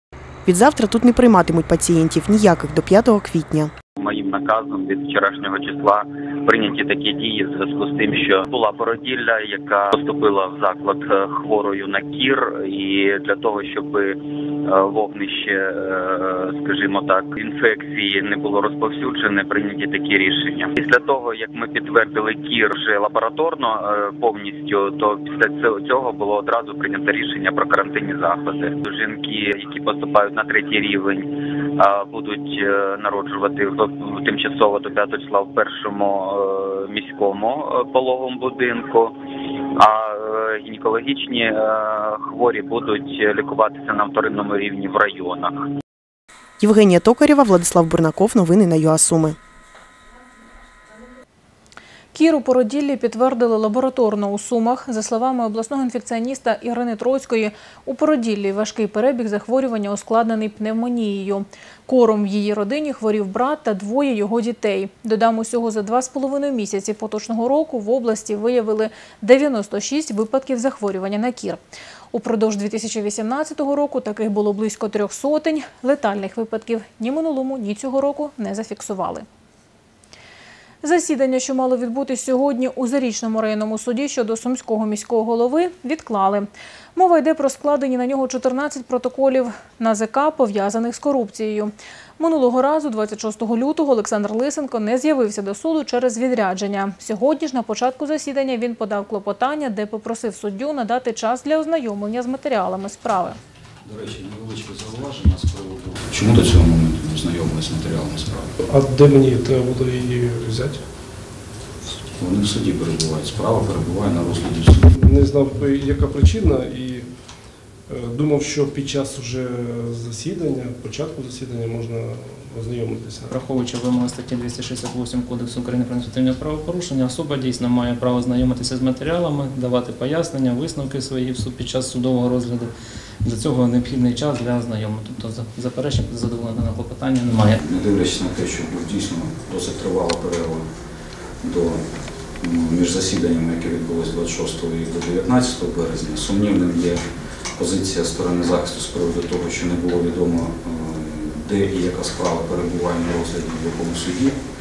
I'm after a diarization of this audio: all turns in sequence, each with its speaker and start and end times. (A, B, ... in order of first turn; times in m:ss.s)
0:00.4-0:03.7 A
0:04.0-0:45.5 B
0:46.6-0:49.4 A
0:52.1-1:11.6 C
1:12.1-1:19.3 C
1:20.8-1:43.4 C
1:43.8-1:48.6 D
1:48.6-1:50.9 E
1:52.2-1:54.9 D
1:55.0-2:03.3 E
2:03.3-2:12.7 F
2:13.2-2:17.6 F
2:17.6-2:20.6 D
2:21.4-2:21.8 D
2:22.4-2:27.0 D
2:27.5-2:34.4 D